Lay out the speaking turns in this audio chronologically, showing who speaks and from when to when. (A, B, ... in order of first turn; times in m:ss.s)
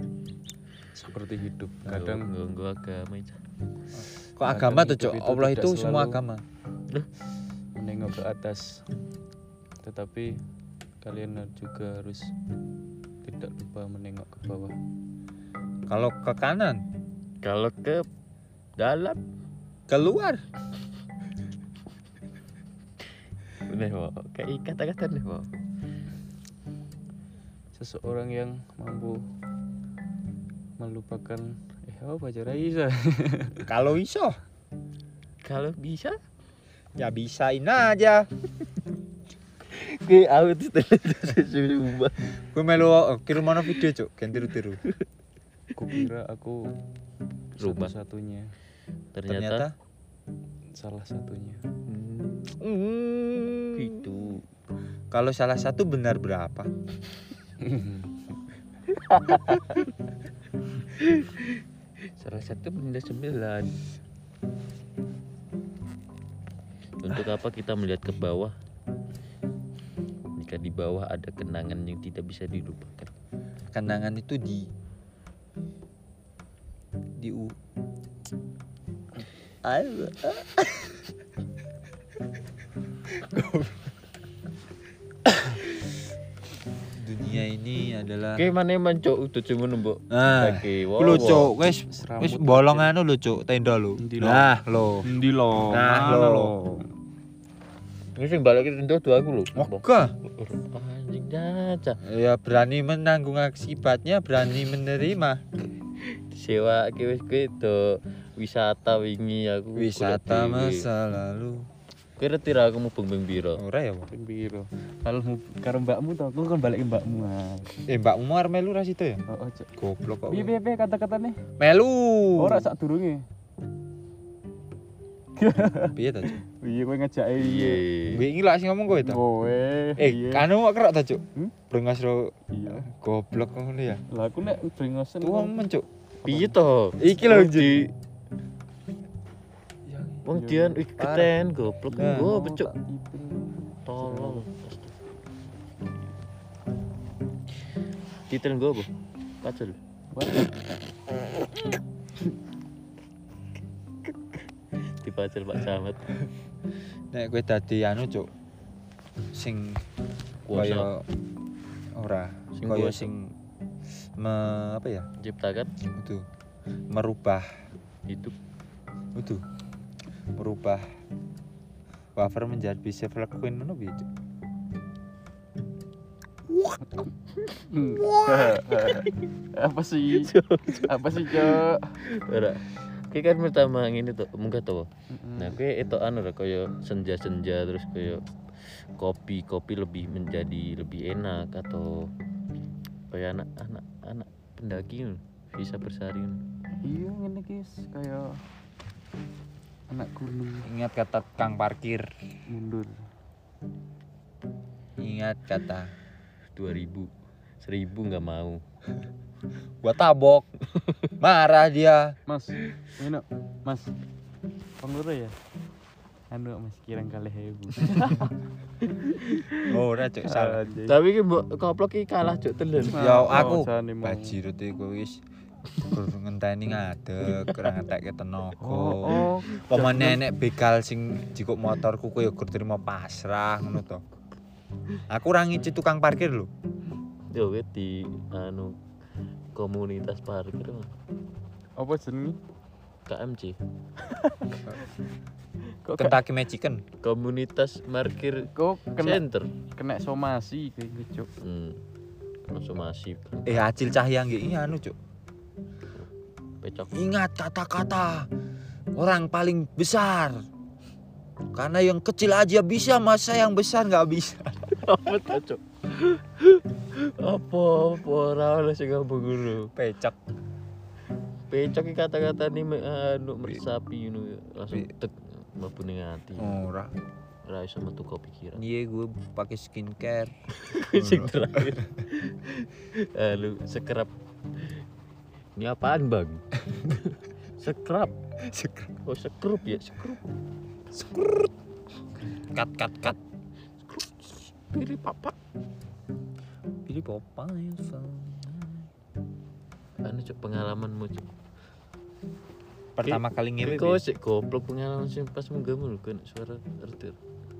0:01.0-0:02.3 A
0:01.9-0:03.4 B
0:03.9-0:06.4 C
0:04.4-0:06.2 A
0:07.8-0:08.8 A
0:09.8-0:10.3 A
0:11.0-0:12.3 A
0:13.2-0:14.7 A
0:15.9-0:16.8 C
0:17.4-0:18.0 B
0:18.8-0:19.2 B
0:19.9-0:20.4 C
0:23.6-0:25.5 B
0:27.7-0:29.2 A
0:30.8-0:33.6 A
0:33.6-0:34.4 C
0:35.4-0:36.2 B
0:37.0-0:38.3 C
0:39.7-0:42.1 B
0:42.5-0:44.8 C
0:45.7-0:46.6 A
0:47.6-0:48.5 A
0:47.6-0:47.9 B
0:49.1-0:49.7 B
0:49.3-0:49.7 C
0:50.7-0:51.6 A
0:51.9-0:52.6 B
0:52.6-0:54.0 C
0:53.7-0:54.4 B
0:55.1-0:56.7 C
0:57.6-0:58.1 A
0:59.0-0:59.8 B
1:00.9-1:01.6 B
1:02.2-1:03.8 B
1:07.0-1:08.5 B
1:10.4-1:13.1 B
1:13.7-1:14.7 C
1:17.2-1:17.6 C
1:19.6-1:21.0 C
1:23.2-1:23.7 C
1:26.9-1:28.5 C
1:28.4-1:31.5 B
1:30.1-1:35.1 C
1:31.9-1:32.9 A
1:34.0-1:36.9 A
1:35.7-1:36.5 C
1:38.2-1:42.0 B
1:39.6-1:40.1 C
1:42.0-1:45.4 C
1:46.0-1:50.9 B
1:49.8-1:51.6 C
1:52.2-1:53.6 B
1:53.6-1:54.1 C
1:54.1-1:57.8 A
1:57.9-1:59.2 C
1:59.3-1:59.7 A
1:59.8-2:00.5 C
2:00.3-2:01.4 A
2:01.6-2:02.7 C
2:02.4-2:03.2 A
2:05.4-2:07.8 A
2:05.8-2:06.4 C
2:07.4-2:08.2 B
2:08.1-2:09.2 C
2:09.0-2:10.5 A
2:10.0-2:14.0 C
2:12.5-2:12.8 A
2:14.1-2:15.6 A
2:15.2-2:15.8 C
2:16.2-2:16.5 A
2:16.2-2:17.9 B
2:17.0-2:17.9 C
2:19.9-2:20.2 C
2:20.2-2:22.7 B
2:20.3-2:20.8 A
2:21.0-2:21.3 C
2:21.9-2:24.5 A
2:22.0-2:22.3 C
2:23.8-2:25.0 B
2:28.3-2:28.9 B
2:29.4-2:29.8 B
2:30.1-2:30.6 A
2:34.7-2:36.0 B
2:37.1-2:38.3 C
2:39.3-2:39.8 C
2:40.4-2:40.9 B
2:40.5-2:41.0 C
2:42.0-2:43.3 C
2:42.6-2:43.0 B
2:44.2-2:45.1 C
2:45.2-2:45.7 B
2:46.0-2:46.2 C
2:46.9-2:47.4 C
2:48.1-2:48.3 B
2:49.1-2:49.4 C
2:50.4-2:50.8 C
2:52.2-2:54.0 C
2:57.4-3:02.0 A
2:57.8-2:58.6 C
2:58.7-2:59.1 B
3:00.1-3:08.2 B
3:05.1-3:05.5 A
3:09.0-3:12.1 B
3:13.1-3:16.4 B
3:16.8-3:18.4 A
3:19.9-3:20.7 A
3:20.6-3:22.1 C
3:22.5-3:23.0 A
3:25.0-3:25.9 C
3:26.5-3:27.1 B
3:27.6-3:28.6 B
3:29.8-3:30.4 C
3:31.2-3:32.1 C
3:32.3-3:33.9 A
3:34.8-3:35.3 A
3:36.3-3:38.3 A
3:39.1-3:39.6 A
3:39.6-3:40.6 C
3:40.2-3:41.0 A
3:40.8-3:43.4 B
3:42.9-3:44.4 A
3:42.9-3:45.2 C
3:45.8-3:54.0 C
3:47.3-3:47.6 B
3:48.6-3:50.2 A
3:55.1-3:56.5 C
3:57.3-3:58.8 B
3:59.6-4:00.9 B
4:01.8-4:02.4 A
4:03.1-4:03.6 B
4:04.0-4:04.8 A
4:05.8-4:06.2 A
4:06.0-4:06.8 C
4:07.0-4:09.5 B
4:08.5-4:09.2 A
4:09.8-4:11.3 A
4:11.4-4:11.8 B
4:12.5-4:13.7 B
4:13.4-4:14.9 C
4:16.6-4:17.0 B
4:16.9-4:18.3 C
4:18.9-4:20.4 C
4:21.5-4:24.7 C
4:24.8-4:29.7 B
4:29.7-4:30.2 C
4:31.5-4:36.6 B
4:36.4-4:36.9 C
4:37.4-4:38.6 B
4:38.5-4:40.3 C
4:40.6-4:44.1 B
4:40.9-4:41.7 C
4:45.6-4:48.1 B
4:48.5-4:48.9 C
4:49.0-4:50.3 B
4:50.9-4:51.5 C
4:52.5-4:53.2 C
4:53.9-4:55.4 B
4:56.8-4:58.9 C
5:00.0-5:01.2 B
5:03.0-5:04.0 C
5:03.0-5:07.2 B